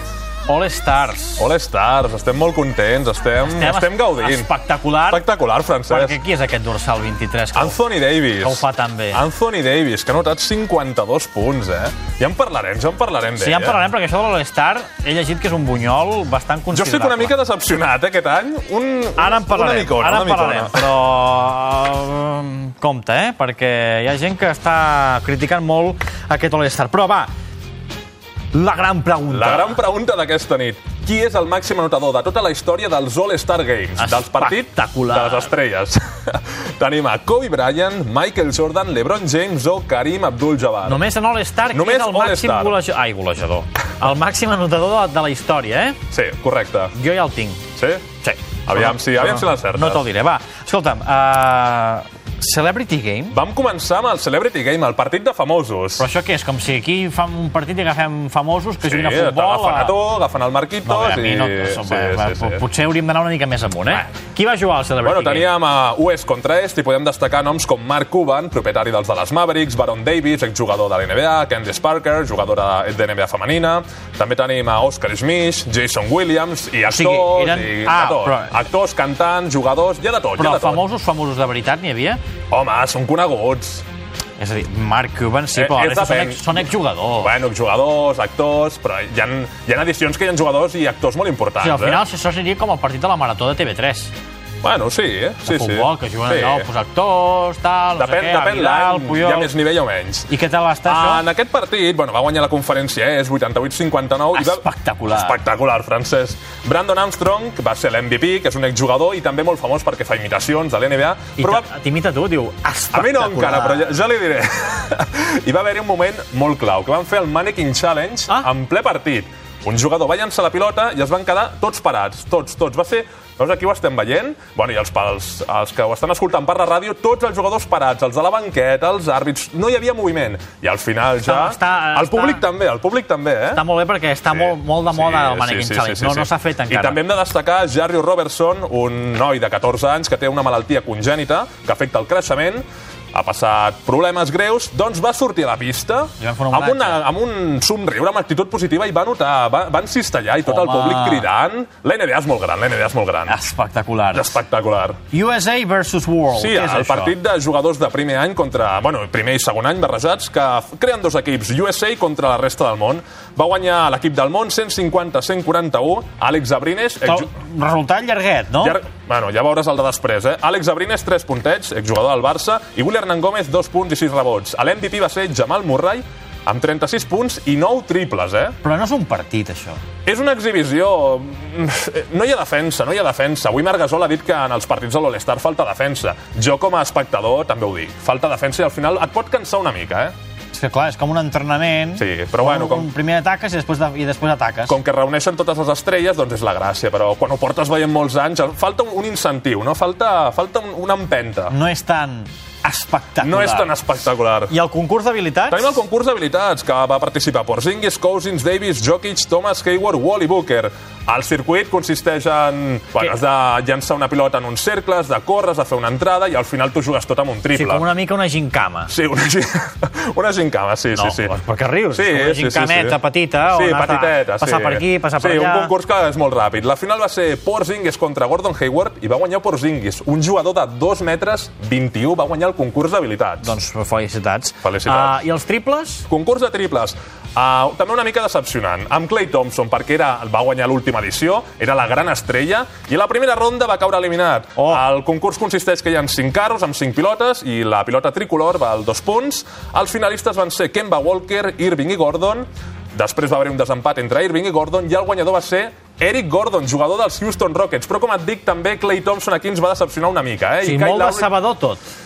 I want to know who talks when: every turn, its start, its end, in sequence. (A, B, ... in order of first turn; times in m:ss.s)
0:00.5-0:01.5 A
0:01.4-0:04.5 B
0:03.4-0:05.2 A
0:05.1-0:06.2 B
0:05.9-0:07.8 A
0:07.5-0:13.9 B
0:08.4-0:09.3 A
0:13.4-0:17.3 A
0:16.7-0:21.0 B
0:19.2-0:27.3 A
0:28.5-0:29.8 A
0:29.3-0:41.1 B
0:34.0-0:35.5 A
0:40.8-0:46.0 A
0:41.7-0:42.8 B
0:46.1-0:46.9 B
0:46.9-0:47.6 A
0:47.8-0:48.0 B
0:48.2-0:53.4 A
0:48.7-0:50.0 B
0:53.3-0:56.1 B
0:56.0-1:00.0 A
0:58.8-1:02.6 B
1:00.8-1:05.5 A
1:05.0-1:20.8 B
1:16.9-1:18.6 A
1:20.4-1:22.2 A
1:22.5-1:23.9 B
1:24.4-1:27.3 A
1:25.5-1:32.0 B
1:31.6-1:34.1 A
1:34.6-1:36.7 B
1:35.5-1:39.5 A
1:38.0-1:40.3 B
1:40.3-1:41.2 A
1:40.9-1:51.7 B
1:44.4-1:45.4 A
1:51.4-1:53.8 A
1:52.9-2:13.6 B
2:11.2-2:12.4 A
2:13.5-2:17.0 A
2:14.3-2:33.4 B
2:26.2-2:27.0 A
2:30.4-2:31.3 A
2:33.3-2:34.4 A
2:34.1-2:35.0 B
2:35.1-2:37.2 A
2:36.3-2:47.3 B
2:47.0-2:48.8 A
2:48.6-2:58.6 B
2:58.6-2:59.8 A
3:00.1-3:10.1 B
3:10.5-3:14.8 A
3:12.0-3:12.9 B
3:14.7-3:21.5 B
3:21.5-3:23.8 A
3:23.2-3:24.5 B
3:24.5-3:25.8 A
3:25.5-3:37.8 B
3:37.5-3:38.9 A
3:38.9-3:41.4 B
3:41.0-3:45.7 A
3:41.9-3:53.5 B
3:53.4-3:56.1 A
3:54.6-3:55.2 B
3:56.1-4:21.3 B
4:04.6-4:04.8 A
4:20.6-4:21.8 A